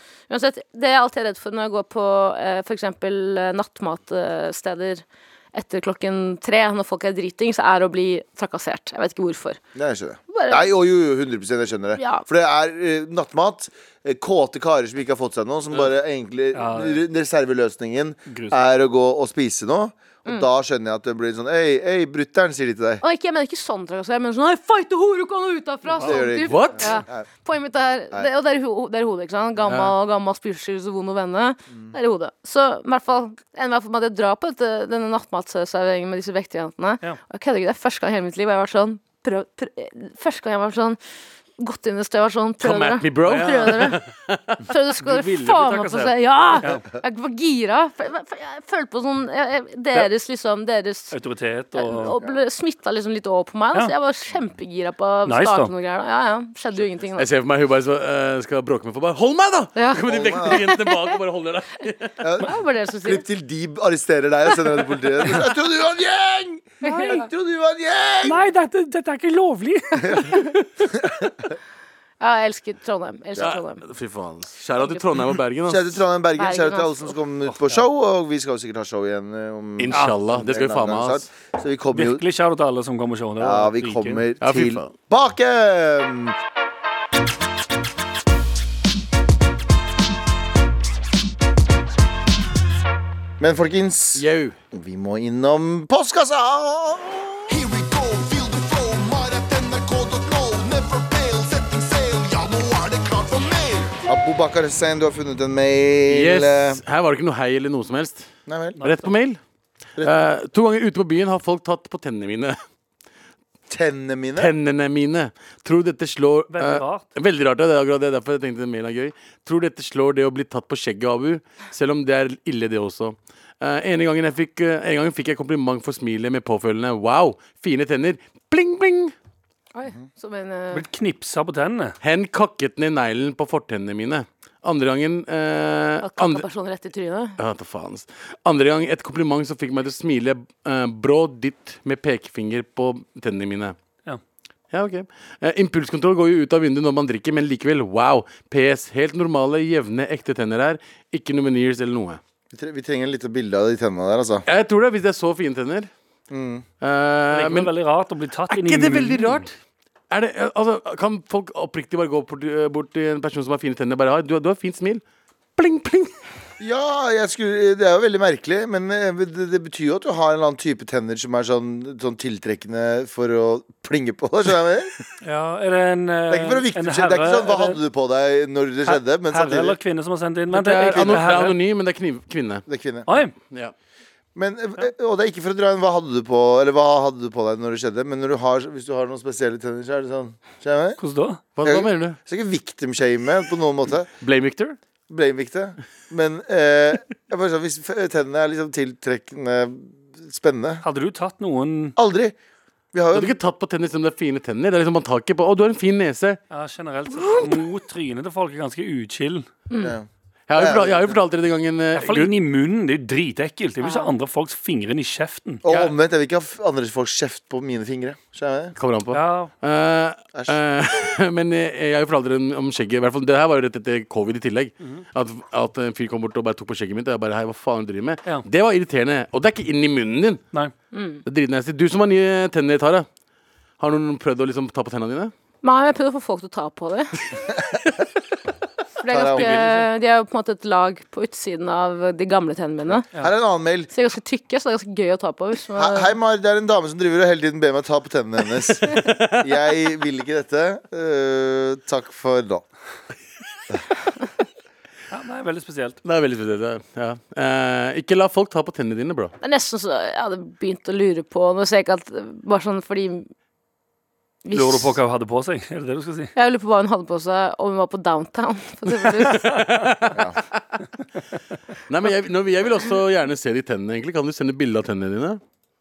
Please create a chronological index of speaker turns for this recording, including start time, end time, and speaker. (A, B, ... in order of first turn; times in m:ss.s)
0:00.3-0:09.6 A
0:09.8-0:23.0 B
0:10.3-0:10.7 A
0:12.0-0:12.3 A
0:16.5-0:17.0 C
0:18.3-0:18.6 C
0:23.0-0:41.0 A
0:26.0-0:27.3 B
0:26.5-0:27.0 D
0:29.7-0:29.9 D
0:41.6-0:44.0 A
0:42.6-0:44.7 D
0:43.3-0:43.7 C
0:44.7-0:51.2 A
0:45.0-0:46.8 C
0:51.1-0:52.1 C
0:51.7-0:57.3 A
0:52.2-0:52.4 B
0:55.3-0:55.7 C
0:57.2-1:02.2 D
0:59.8-1:01.1 A
1:00.1-1:00.6 B
1:02.2-1:08.4 B
1:02.4-1:03.2 A
1:06.8-1:07.3 C
1:06.8-1:07.3 A
1:08.2-1:10.7 C
1:10.0-1:10.3 B
1:10.9-1:11.3 B
1:12.2-1:13.8 A
1:13.4-1:16.0 D
1:14.8-1:15.0 A
1:15.6-1:22.2 B
1:16.4-1:17.2 A
1:17.6-1:17.8 C
1:19.8-1:21.2 D
1:21.9-1:24.2 C
1:23.4-1:26.4 B
1:24.4-1:24.9 D
1:33.4-1:37.5 B
1:34.2-1:34.6 D
1:37.5-1:44.0 E
1:44.0-1:46.8 B
1:46.1-1:48.3 D
1:48.5-1:48.8 B
1:48.8-1:49.1 C
1:48.8-1:49.4 D
1:50.0-1:50.3 B
1:50.0-1:52.6 D
1:53.7-1:54.5 B
1:54.4-2:09.1 D
1:56.5-1:57.1 C
2:09.8-2:10.8 A
2:10.7-2:12.0 C
2:12.0-2:16.5 D
2:16.0-2:17.4 A
2:17.4-2:23.8 D
2:24.7-2:32.2 D
2:32.5-2:34.4 B
2:34.5-2:35.9 D
2:36.3-2:36.6 B
2:36.8-2:37.7 D
2:37.3-2:39.5 C
2:38.5-2:39.5 D
2:40.1-2:45.0 D
2:45.6-2:46.1 D
2:46.6-2:54.9 B
2:55.2-2:57.8 C
2:56.3-2:59.8 B
2:58.9-3:01.6 C
3:00.5-3:02.6 D
3:00.9-3:01.4 B
3:02.7-3:03.1 B
3:03.1-3:03.3 C
3:04.4-3:11.0 B
3:11.0-3:11.4 C
3:11.6-3:12.2 D
3:11.6-3:14.1 B
3:14.2-3:14.8 D
3:15.1-3:20.8 B
3:20.8-3:22.0 C
3:22.0-3:22.4 B
3:22.9-3:23.4 B
3:23.1-3:26.4 D
3:26.5-3:29.5 C
3:29.8-3:31.2 B
3:30.5-3:32.3 D
3:32.0-3:35.6 C
3:33.8-3:34.1 A
3:35.6-3:38.8 B
3:35.7-3:35.9 D
3:38.8-3:50.4 D
3:39.1-3:39.5 C
3:40.3-3:40.6 B
3:50.9-3:51.2 A
3:51.2-3:53.1 D
3:53.8-3:55.3 D
3:55.6-3:57.1 A
3:57.5-3:57.8 B
3:59.0-4:03.0 A
3:59.1-3:59.7 B
4:02.9-4:03.9 B
4:03.9-4:06.2 A
4:05.8-4:12.6 B
4:08.9-4:09.4 D
4:15.1-4:16.0 C
4:16.0-4:19.3 D
4:19.4-4:23.3 A
4:24.4-4:25.0 A
4:24.5-4:26.3 C
4:26.4-4:29.5 A
4:29.2-4:30.6 D
4:31.9-4:35.4 D